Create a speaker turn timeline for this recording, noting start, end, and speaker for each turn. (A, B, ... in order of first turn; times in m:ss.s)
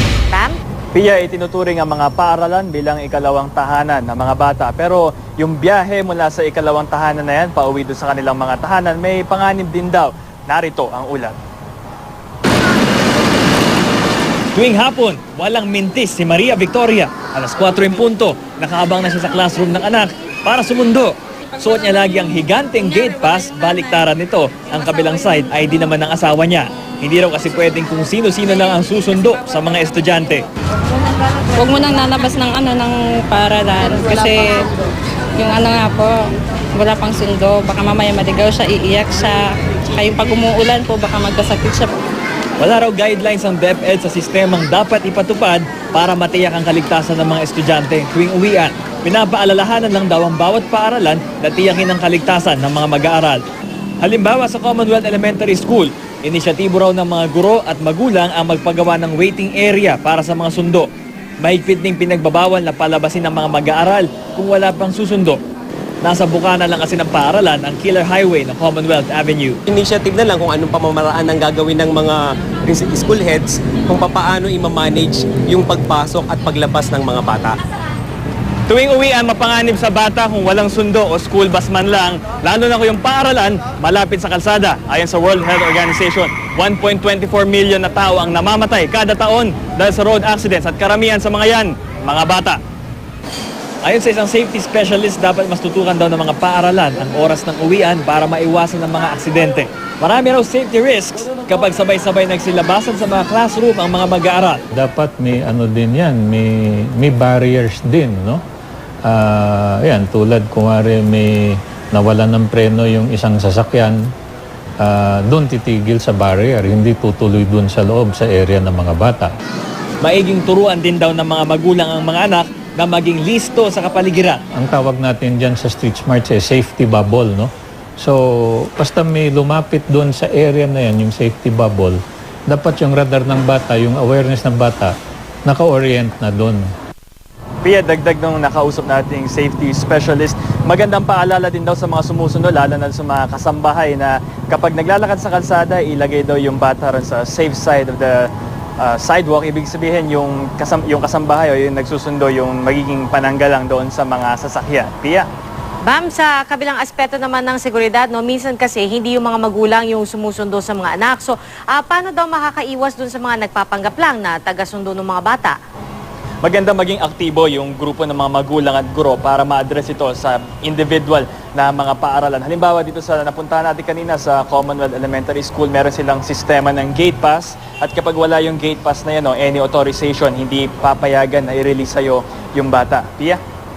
0:00.3-0:00.6 A
0:00.9-0:11.4 B
0:14.5-0:30.4 B
0:31.6-0:34.7 C
0:35.4-0:36.1 C
0:36.8-0:41.9 C
0:42.6-0:53.4 B
0:54.0-1:00.9 B
1:01.4-1:05.4 B
1:06.0-1:09.6 B
1:09.7-1:17.6 D
1:18.7-1:32.6 B
1:33.8-1:44.6 B
1:44.7-1:48.4 E
1:49.0-1:54.0 E
1:54.8-1:59.3 E
2:00.0-2:04.4 B
2:04.5-2:14.9 E
2:15.4-2:16.6 E
2:17.6-2:28.3 B
2:28.8-2:35.3 B
2:35.8-2:45.6 A
2:46.4-3:03.4 B